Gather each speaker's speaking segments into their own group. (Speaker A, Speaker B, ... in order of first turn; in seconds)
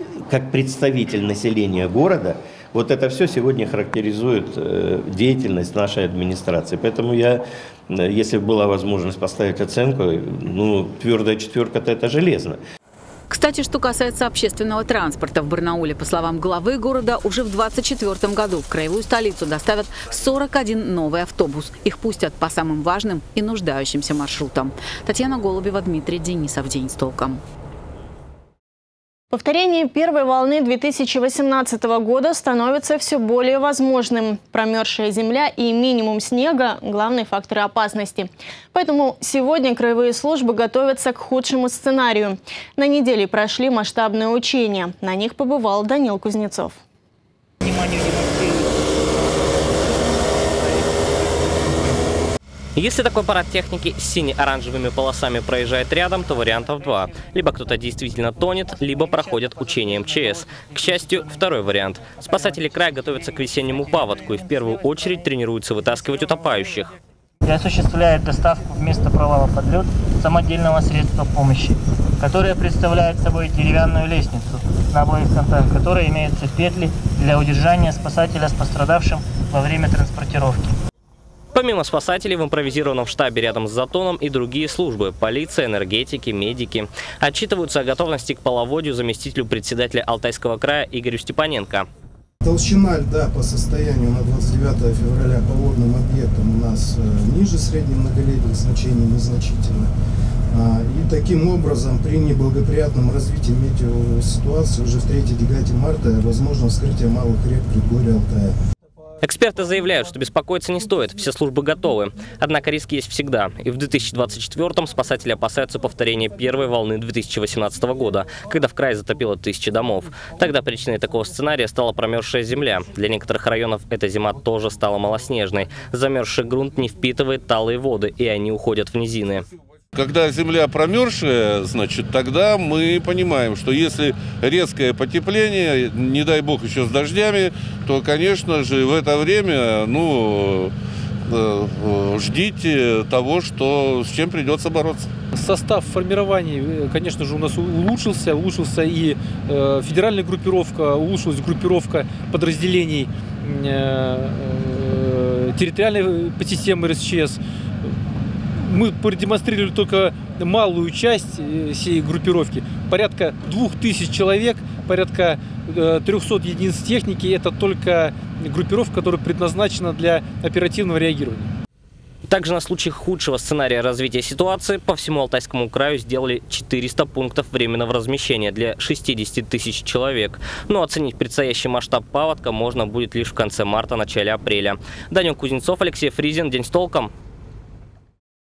Speaker A: 0.2-12.6
Speaker B: 13.3-27.4
Speaker C: 29.3-46.8
Speaker D: 47.6-48.8, 67.5-80.7
Speaker E: 52.8-66.9, 81.5-91.9, 109.2-129.4, 172.3-187.1
Speaker F: 92.4-99.9, 100.5-108.6
Speaker G: 129.9-140.7, 141.3-145.1
Speaker H: 145.3-157.4, 158.7-171.5